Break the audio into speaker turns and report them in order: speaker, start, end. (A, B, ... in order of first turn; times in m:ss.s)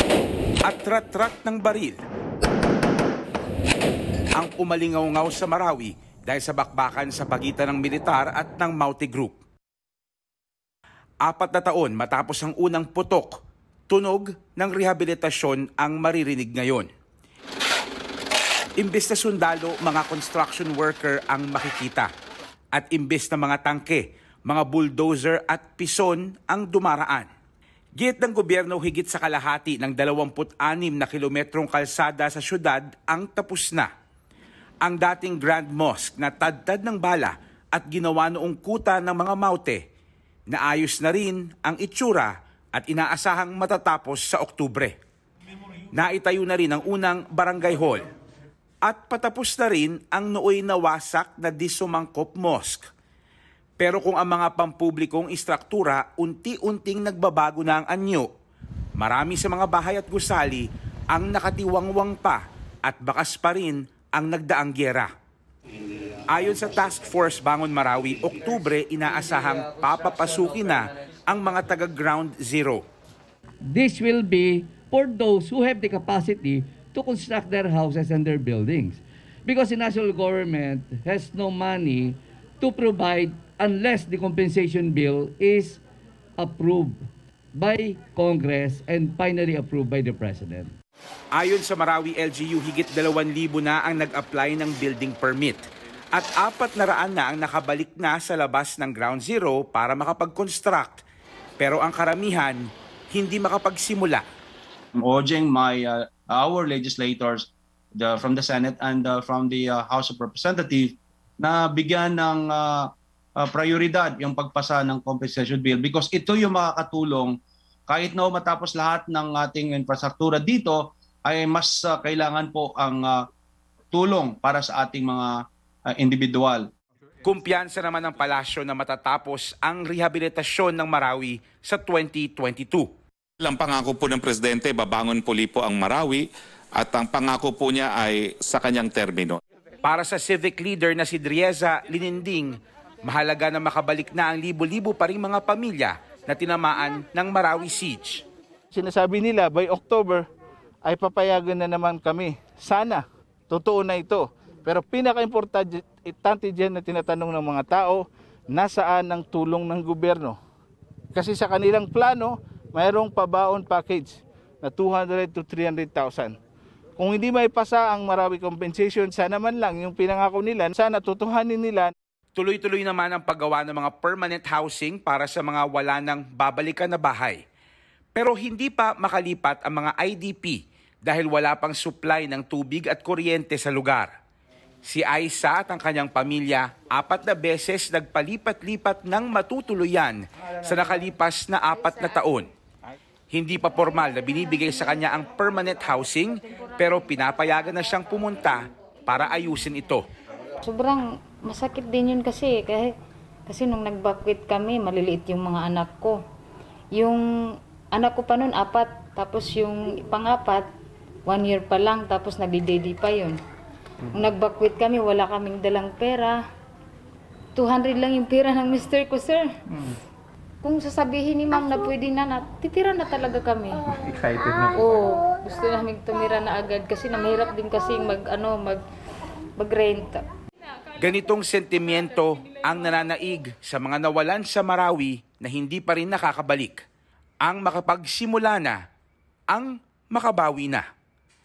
0:00.6-0:02.0 A
0:04.4-0:09.4 A
0:11.2-0:13.3 A
0:13.9-0:16.9 A
0:18.8-0:22.1 A
0:22.7-0:27.3 A
0:28.0-0:33.9 A
0:34.8-0:39.8 A
0:40.5-0:45.0 A
0:45.9-0:48.0 A
0:48.8-0:52.9 A
0:53.8-0:58.3 A
0:59.0-1:05.1 A
1:06.3-1:12.8 A
1:13.6-1:25.8 B
1:26.4-1:27.0 B
1:27.5-1:30.7 B
1:31.3-1:41.0 A
1:41.6-1:44.2 A
1:45.0-2:03.3 C
2:03.9-2:06.7 C
2:07.2-2:12.9 A
2:13.4-2:19.4 D
2:19.8-2:28.2 A
2:28.7-2:30.2 E
2:30.8-2:40.4 E
2:41.1-2:46.4 E
2:47.0-2:51.9 E
2:52.3-2:57.4 A
2:58.1-3:04.1 A
3:04.8-3:12.5 A
3:13.3-3:20.1 A
3:20.6-3:26.2 F
3:26.9-3:30.7 F
3:31.2-3:33.4 F
3:34.1-3:36.4 F
3:37.5-3:39.5 F
3:40.6-3:48.8 F
3:49.6-3:50.2 F
3:51.0-3:56.8 A
3:57.4-3:58.8 A
3:59.5-4:00.8 A